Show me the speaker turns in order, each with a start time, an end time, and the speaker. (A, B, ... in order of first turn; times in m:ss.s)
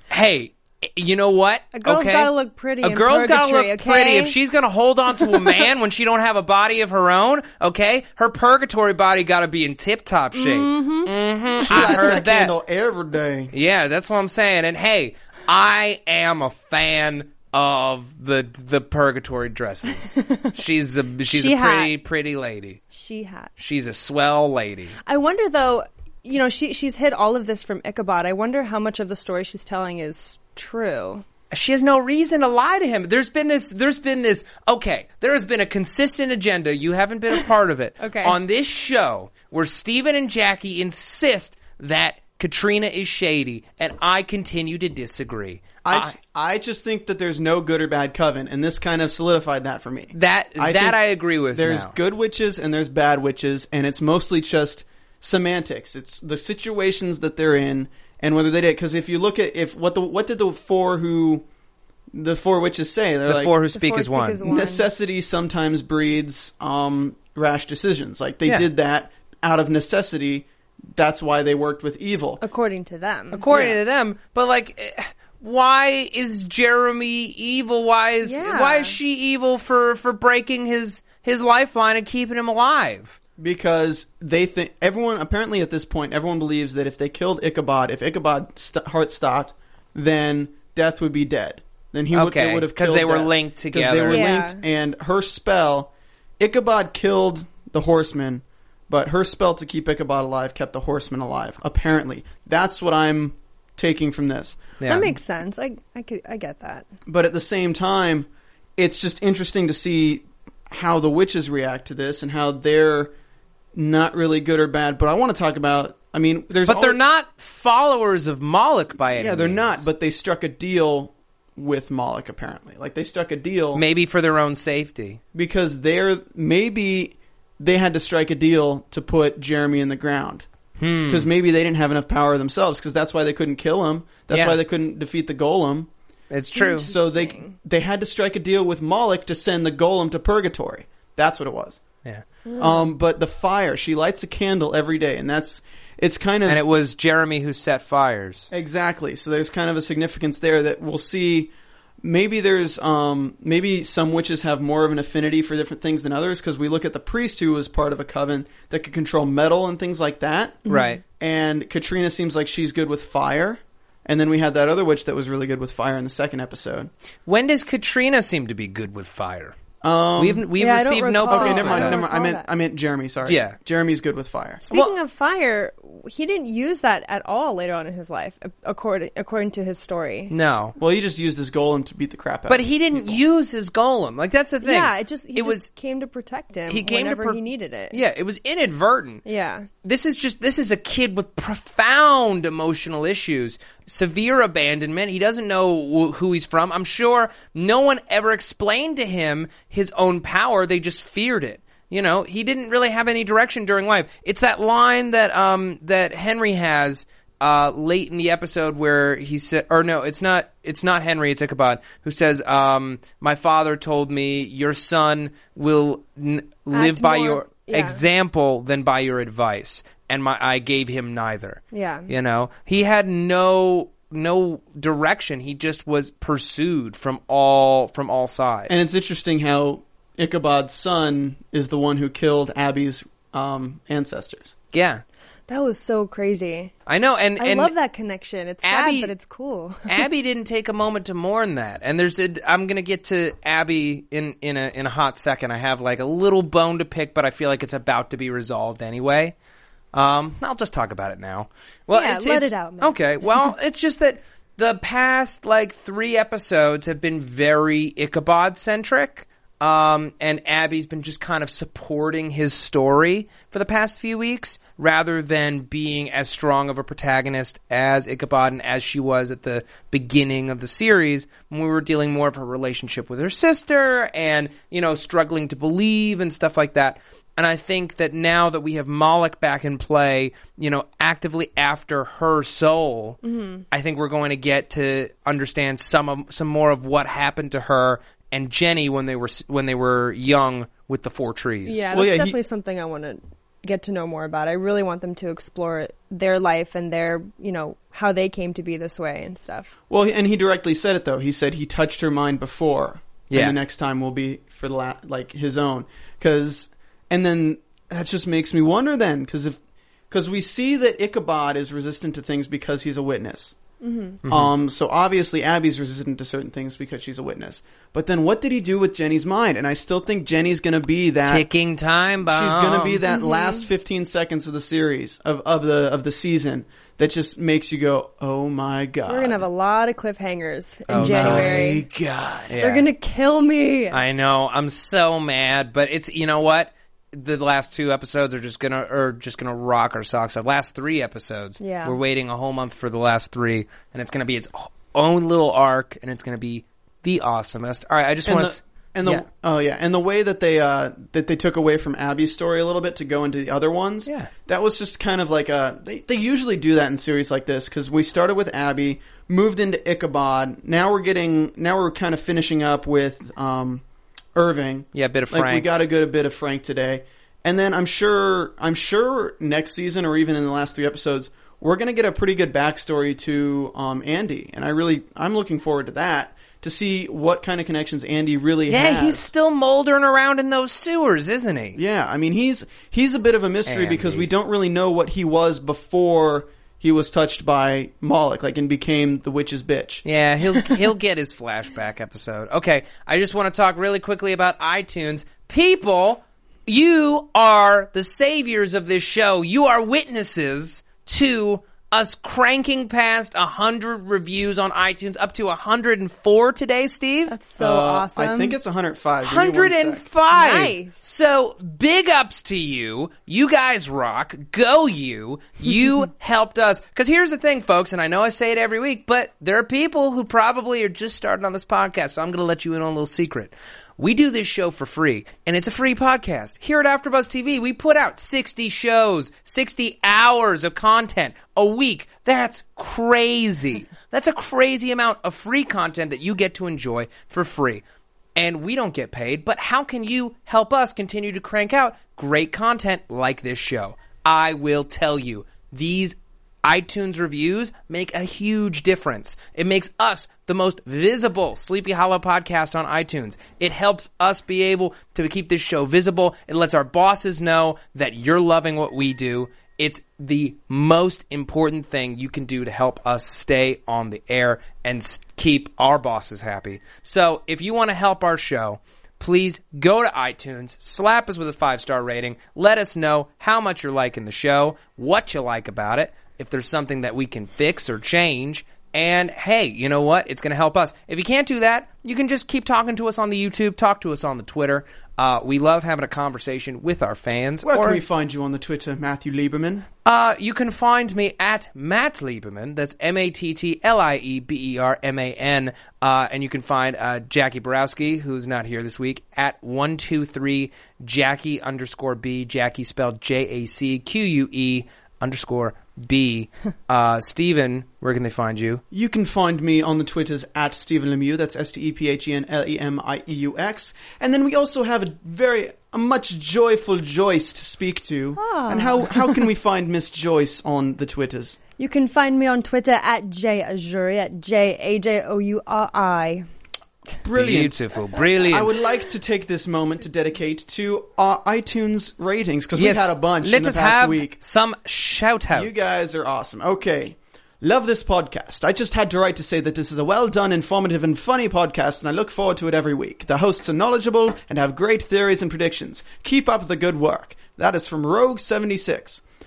0:00.1-0:12.5 A
0:01.7-0:04.3 B
0:05.2-0:05.6 B
0:10.3-0:11.1 B
0:11.6-0:13.5 C
0:13.5-0:22.8 A
0:20.2-0:20.5 B
0:21.3-0:21.9 B
0:22.9-0:23.5 B
0:23.6-0:24.9 A
0:25.0-0:31.2 B
0:31.5-0:46.1 A
0:38.0-0:38.4 B
0:45.8-0:51.0 C
0:50.1-0:51.9 A
0:51.5-1:01.4 C
1:02.1-1:03.5 C
1:03.2-1:04.4 A
1:03.7-1:04.9 B
1:04.4-1:12.4 C
1:12.4-1:13.8 B
1:13.3-1:23.2 A
1:18.2-1:19.0 B
1:23.4-1:44.6 C
1:32.1-1:34.3 A
1:34.1-1:34.6 B
1:44.8-1:45.1 A
1:44.8-1:46.9 B
1:47.0-1:53.1 C
1:53.7-1:57.0 C
1:56.6-1:59.8 A
1:59.1-2:03.8 C
2:03.7-2:05.2 A
2:05.3-2:10.5 C
2:10.8-2:11.3 A
2:11.0-2:15.9 C
2:14.3-2:14.6 A
2:16.3-2:16.9 A
2:16.5-2:17.6 B
2:16.8-2:21.8 C
2:22.4-2:22.9 B
2:22.6-2:26.9 C
2:26.5-2:28.5 A
2:28.5-2:40.6 C
2:40.6-2:41.0 B
2:40.7-2:41.0 A
2:41.2-2:46.9 C
2:47.2-2:49.6 A
2:49.8-2:50.5 C
2:50.2-2:52.0 A
2:50.6-2:52.4 B
2:51.3-2:54.6 C
2:53.2-2:53.6 A
2:54.6-3:00.3 B
3:00.3-3:00.8 A
3:00.8-3:03.2 C
3:02.5-3:05.7 A
3:04.6-3:08.0 B
3:06.7-3:09.2 A
3:09.2-3:09.7 B
3:09.8-3:48.9 A
3:36.7-3:38.0 B
3:41.7-3:42.1 B
3:48.7-3:54.5 C
3:54.7-3:55.0 A
3:55.5-3:56.7 B
3:56.9-3:57.7 A
3:57.4-4:00.0 B
3:58.6-3:59.1 A
3:59.8-4:09.3 A
4:09.9-4:43.2 A
4:11.9-4:13.5 B
4:43.2-4:43.6 B
4:43.7-4:51.9 A
4:51.6-4:59.7 B
4:51.9-4:52.4 C
4:59.9-5:09.6 C
5:03.3-5:03.6 A
5:10.1-5:13.5 C
5:13.8-5:14.2 B
5:14.2-5:14.5 A
5:14.2-5:21.4 C
5:21.2-5:23.0 A
5:22.2-5:29.4 C
5:23.1-5:23.7 B
5:29.0-5:31.8 B
5:30.9-5:31.7 A
5:30.9-5:32.6 C
5:32.5-5:32.9 A
5:32.6-5:34.0 B
5:33.9-5:49.2 A
5:41.6-5:42.0 B
5:48.2-6:03.8 C
6:04.3-6:19.3 C
6:04.9-6:05.7 A
6:18.7-6:21.8 A
6:21.8-6:30.0 C
6:23.7-6:24.2 A
6:30.0-6:47.4 A
6:47.3-6:48.6 B
6:47.6-6:50.0 C
6:49.2-7:17.8 A
6:50.3-6:50.9 B
7:18.4-8:08.0 A
8:07.6-8:09.9 C
8:10.0-8:28.8 A
8:28.9-8:41.6 C
8:38.4-8:39.4 B
8:41.8-8:46.4 B
8:47.2-8:47.8 C
8:47.3-8:48.8 A
8:48.5-8:54.4 C
8:52.7-8:55.9 A
8:55.5-9:09.2 C